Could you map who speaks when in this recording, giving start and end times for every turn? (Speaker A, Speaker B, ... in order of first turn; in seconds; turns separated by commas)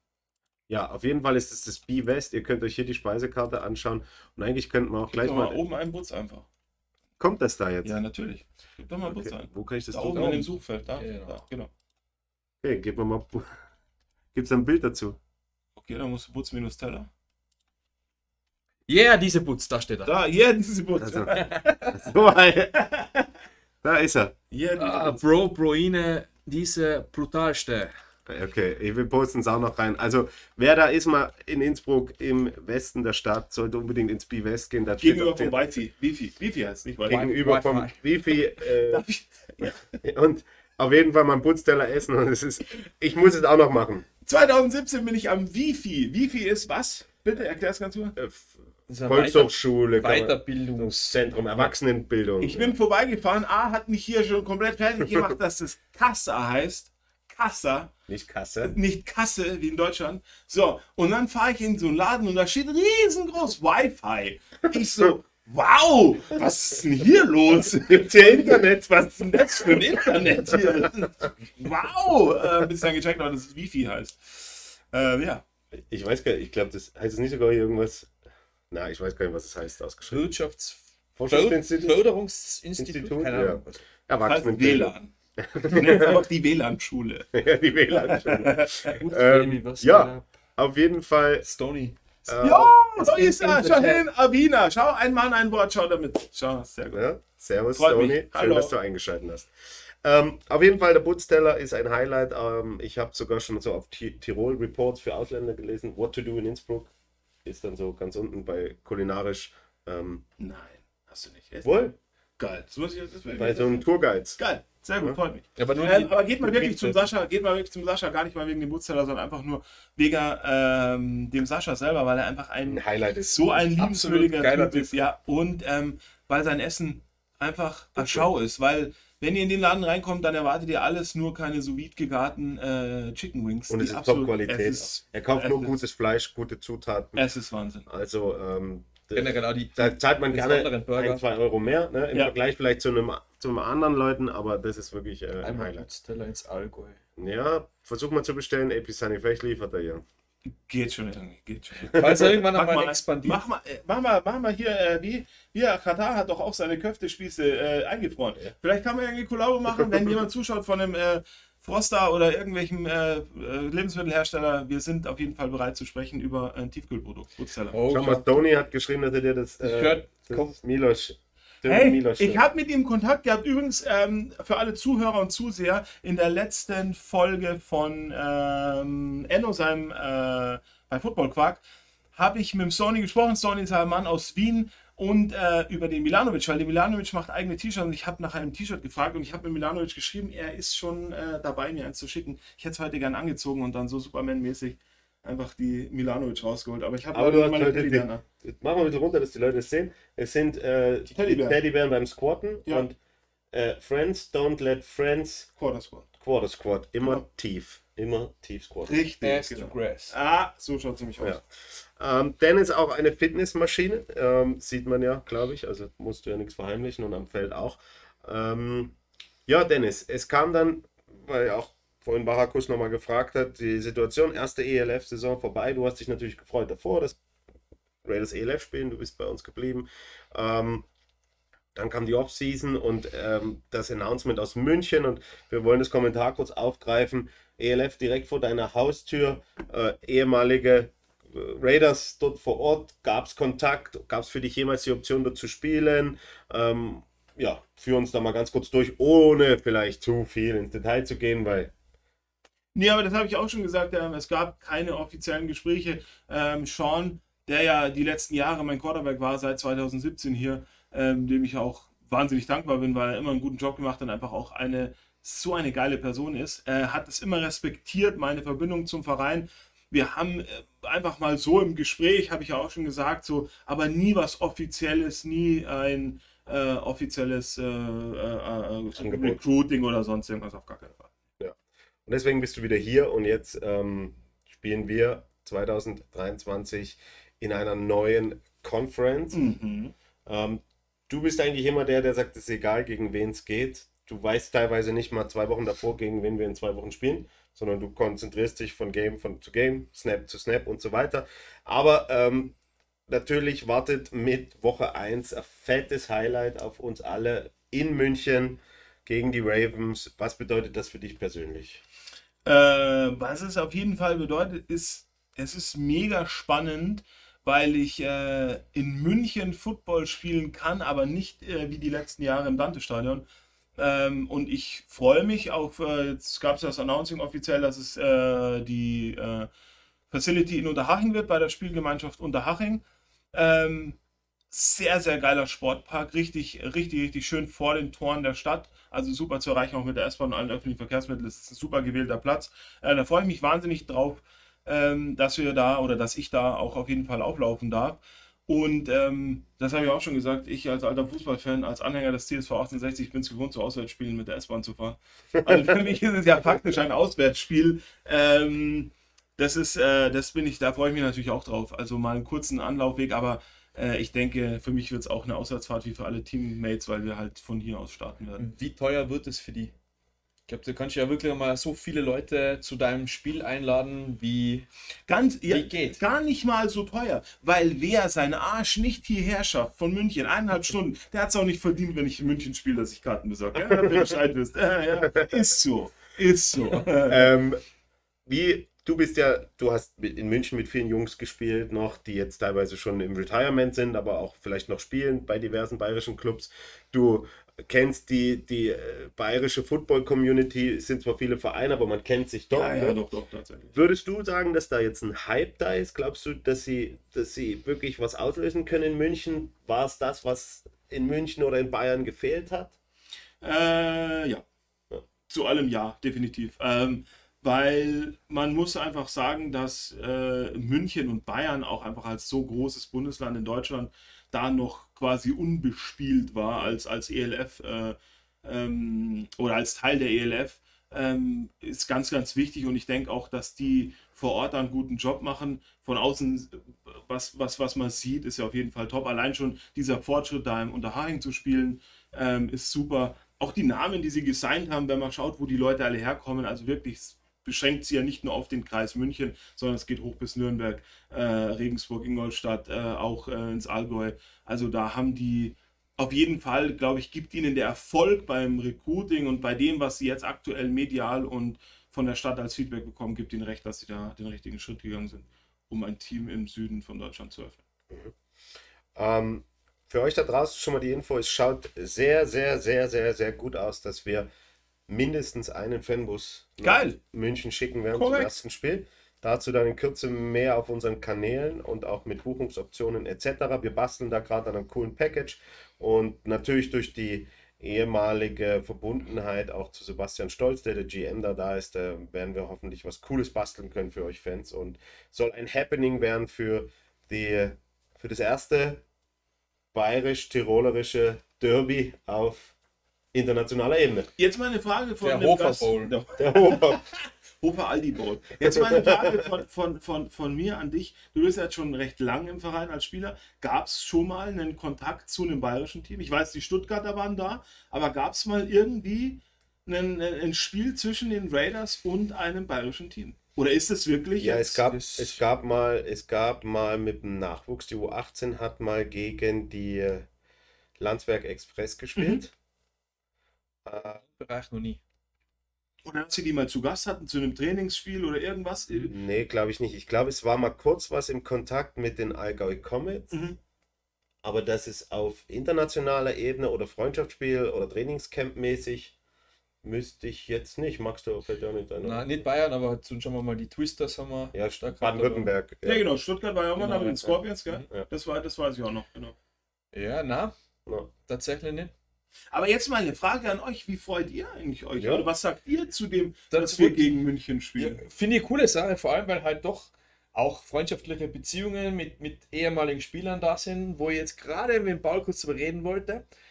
Speaker A: 0.7-5.6, Speaker B: 5.1-6.5, Speaker A: 7.2-7.9, Speaker B: 7.8-11.7, Speaker A: 9.0-10.5, Speaker C: 11.0-11.4, Speaker A: 12.6-13.6, Speaker A: 14.3-15.2, Speaker B: 15.8-17.1, Speaker C: 18.9-20.1, Speaker B: 20.0-21.7, Speaker A: 21.0-21.4, Speaker C: 21.3-21.9, Speaker A: 21.9-23.2, Speaker A: 23.8-24.3, Speaker B: 24.5-25.2, Speaker C: 24.8-27.9, Speaker A: 28.3-35.6, Speaker B: 35.0-37.2, Speaker A: 37.1-39.0, Speaker C: 37.1-38.3, Speaker B: 38.9-39.8, Speaker A: 40.0-44.1, Speaker B: 44.2-48.1, Speaker A: 48.1-52.7, Speaker C: 48.9-51.3, Speaker B: 52.4-57.9, Speaker A: 58.1-58.8, Speaker B: 58.6-68.7, Speaker A: 67.9-70.8, Speaker B: 69.3-75.4, Speaker A: 75.9-78.1, Speaker A: 78.7-80.3, Speaker C: 80.1-83.8, Speaker A: 81.2-82.0, Speaker A: 82.8-86.1, Speaker B: 84.2-85.1, Speaker B: 85.7-87.3, Speaker A: 87.3-91.5, Speaker B: 87.9-88.9, Speaker C: 88.9-90.2, Speaker C: 91.4-92.0, Speaker A: 92.2-92.7, Speaker B: 92.4-97.0, Speaker C: 93.0-94.0, Speaker A: 96.9-99.5, Speaker B: 97.7-98.7, Speaker A: 100.0-106.9, Speaker A: 107.4-110.2, Speaker B: 110.4-113.8, Speaker A: 111.6-111.9, Speaker A: 113.3-114.4, Speaker B: 114.4-135.8, Speaker C: 115.6-116.9, Speaker A: 122.7-123.7, Speaker C: 123.7-125.0, Speaker A: 128.0-128.3, Speaker A: 133.7-137.2, Speaker B: 137.1-137.8, Speaker A: 137.9-145.8, Speaker C: 139.1-141.2, Speaker C: 145.4-147.0, Speaker A: 147.2-150.0, Speaker B: 150.4-167.8, Speaker C: 151.9-153.4, Speaker C: 167.7-168.4, Speaker A: 167.9-172.4, Speaker C: 169.6-170.5, Speaker B: 171.6-181.6, Speaker B: 182.1-198.2, Speaker A: 197.1-203.0, Speaker B: 201.1-201.6, Speaker A: 203.5-205.5, Speaker B: 205.6-206.1, Speaker A: 206.2-209.0, Speaker B: 208.8-211.4, Speaker C: 209.2-210.1, Speaker A: 212.0-218.9, Speaker A: 219.5-227.2, Speaker A: 228.0-230.8, Speaker A: 231.7-251.7, Speaker B: 252.7-281.1, Speaker A: 278.9-279.4, Speaker A: 282.1-289.4, Speaker B: 289.3-289.9, Speaker A: 290.2-302.6, Speaker A: 303.1-311.8, Speaker B: 312.4-323.2, Speaker B: 323.8-329.5, Speaker B: 330.1-334.0, Speaker B: 334.5-368.5, Speaker C: 368.4-369.7, Speaker C: 370.5-374.7, Speaker B: 375.1-387.3, Speaker C: 375.5-376.0, Speaker A: 387.1-387.6, Speaker A: 388.2-403.0, Speaker B: 402.5-403.7, Speaker A: 403.7-412.7, Speaker B: 413.4-414.4, Speaker B: 415.3-467.6, Speaker A: 468.9-474.3, Speaker A: 474.9-498.8, Speaker B: 476.6-477.0, Speaker B: 477.9-478.3, Speaker A: 499.7-502.5, Speaker A: 503.1-504.1, Speaker B: 504.2-524.6, Speaker C: 505.0-505.9, Speaker A: 506.2-506.8, Speaker A: 508.4-509.2, Speaker A: 524.2-530.1, Speaker C: 524.7-525.2, Speaker A: 530.8-532.3, Speaker B: 532.0-532.2, Speaker A: 533.6-534.0, Speaker C: 534.0-534.8, Speaker B: 535.8-538.9, Speaker A: 538.8-543.3, Speaker B: 543.1-543.4, Speaker A: 544.2-548.9, Speaker A: 549.6-552.0, Speaker C: 551.8-555.3, Speaker A: 554.3-555.9, Speaker B: 555.6-559.1, Speaker C: 556.6-557.6, Speaker C: 559.7-560.3, Speaker C: 561.0-561.7, Speaker B: 562.3-567.8, Speaker A: 564.8-565.1, Speaker C: 566.3-566.9, Speaker C: 567.6-576.0